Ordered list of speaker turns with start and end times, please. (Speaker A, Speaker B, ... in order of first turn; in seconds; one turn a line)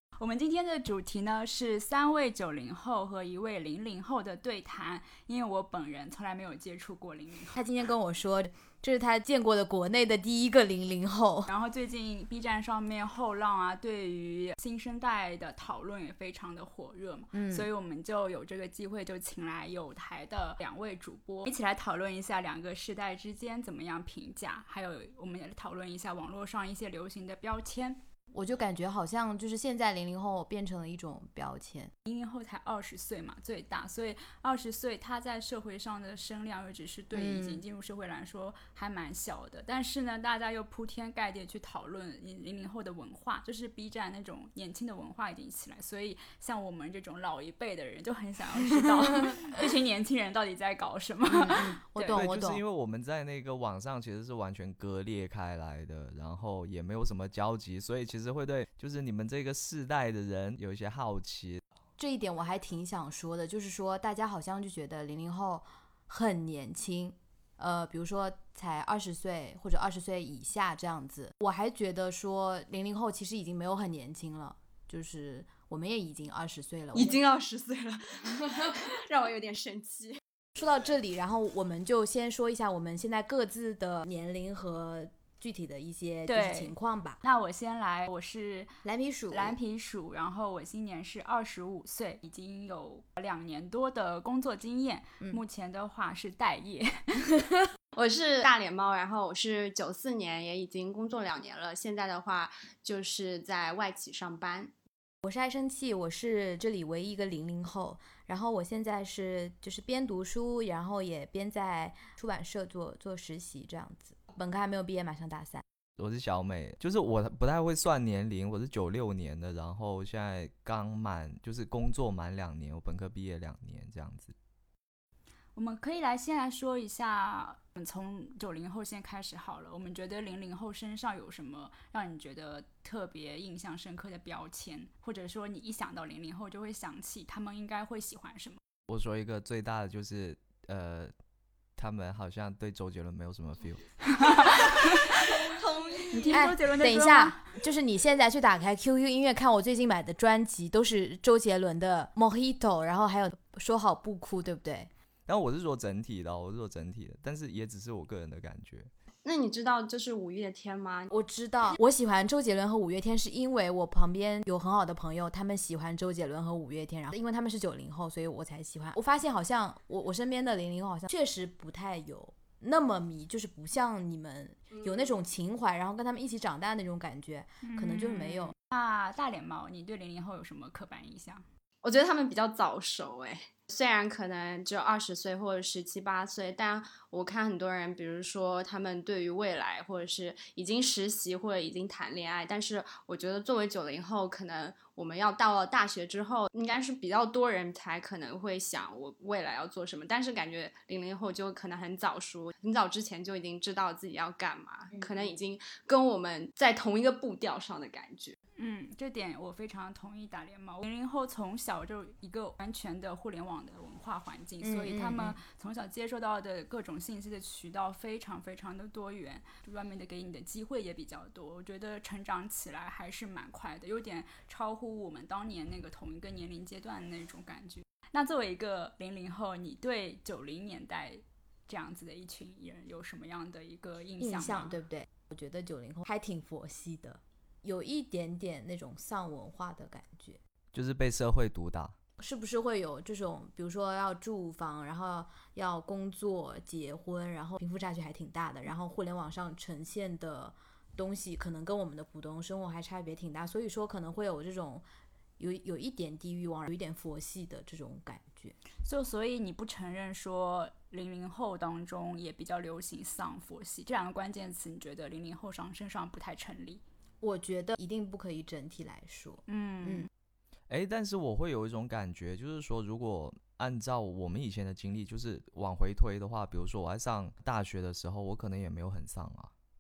Speaker A: 0.2-7.6
Speaker B: 7.5-11.5
Speaker A: 11.5-28.0
Speaker B: 17.3-17.7
Speaker B: 28.3-31.9
Speaker A: 32.0-52.3
Speaker B: 37.1-37.6
Speaker B: 48.8-49.4
Speaker B: 51.3-52.6
Speaker C: 52.1-61.6
Speaker B: 62.0-77.2
Speaker D: 76.9-80.2
Speaker B: 80.5-87.2
Speaker A: 86.3-88.8
Speaker B: 88.8-89.6
Speaker A: 89.3-97.3
Speaker D: 97.9-104.7
Speaker B: 105.2-115.6
Speaker C: 116.0-124.3
Speaker A: 125.5-138.6
Speaker C: 138.9-141.1
Speaker C: 141.8-144.2
Speaker A: 144.2-145.3
Speaker D: 145.2-146.4
Speaker A: 146.1-147.4
Speaker B: 146.3-154.9
Speaker C: 155.3-158.9
Speaker D: 159.2-161.1
Speaker B: 161.1-178.5
Speaker D: 174.7-175.0
Speaker A: 177.6-181.4
Speaker D: 181.8-208.4
Speaker B: 204.9-205.3
Speaker A: 208.6-234.8
Speaker B: 214.6-215.4
Speaker B: 234.2-240.4
Speaker C: 240.7-242.0
Speaker B: 242.2-254.9
Speaker B: 255.4-258.6
Speaker A: 258.8-266.8
Speaker B: 267.2-270.1
Speaker A: 269.5-270.1
Speaker C: 270.7-279.5